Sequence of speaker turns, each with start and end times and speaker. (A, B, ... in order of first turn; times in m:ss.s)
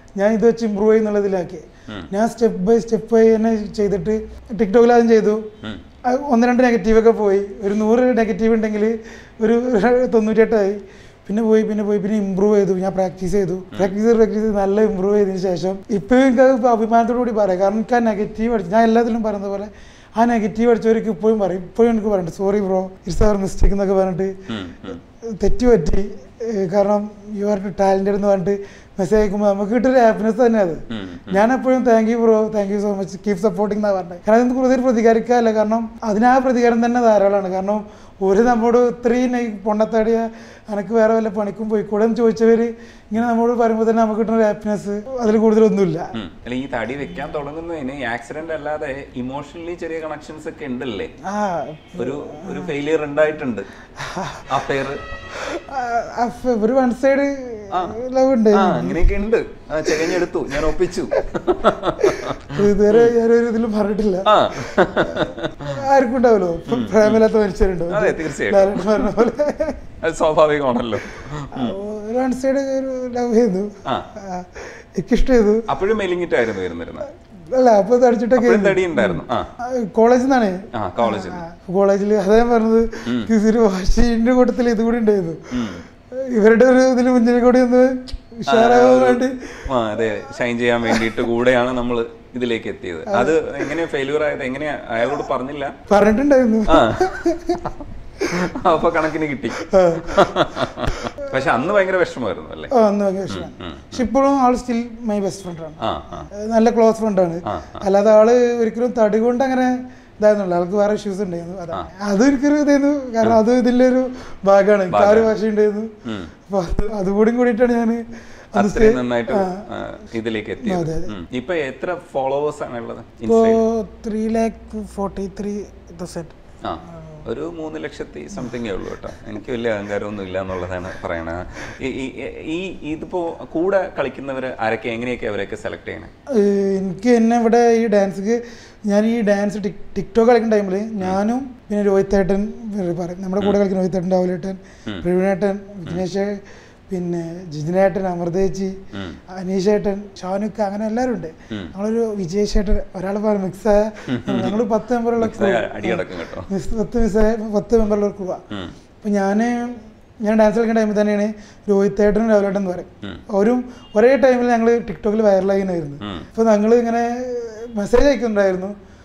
0:00.2-0:05.5 A
0:06.0-0:24.4 A
0:24.5-0:25.0 B
0:24.9-0:46.2 A
0:30.9-0:31.4 B
0:46.2-0:51.1 B
0:51.2-0:52.7 A
0:52.0-0:53.7 B
0:54.0-0:54.6 A
0:54.5-0:55.0 B
0:55.3-0:59.0 A
0:58.5-1:03.1 B
0:59.9-1:01.3 A
1:01.9-1:09.8 A
1:04.3-1:05.8 B
1:06.7-1:07.2 B
1:07.9-1:09.3 B
1:10.0-1:11.8 B
1:11.5-1:15.7 A
1:15.7-1:17.1 B
1:17.5-1:25.5 A
1:18.4-1:19.5 B
1:20.7-1:21.4 B
1:25.5-1:25.8 B
1:26.1-1:29.7 A
1:28.5-1:35.8 B
1:30.9-1:31.2 A
1:33.1-1:33.7 A
1:35.9-1:37.6 A
1:36.7-1:37.7 B
1:38.3-1:42.7 B
1:39.6-1:41.3 A
1:42.7-1:55.9 A
1:43.3-1:44.0 B
1:45.8-1:46.3 B
1:47.5-1:47.8 B
1:54.9-1:55.3 B
1:56.0-1:56.3 B
1:56.5-1:58.0 A
1:58.5-1:59.6 A
1:58.6-2:03.6 B
2:00.6-2:01.1 A
2:03.2-2:06.4 A
2:06.6-2:16.1 B
2:06.9-2:07.2 A
2:16.3-2:28.8 A
2:28.9-2:29.2 B
2:29.3-2:38.4 A
2:34.1-2:34.6 B
2:35.2-2:36.5 B
2:39.0-2:48.8 A
2:46.0-2:46.3 B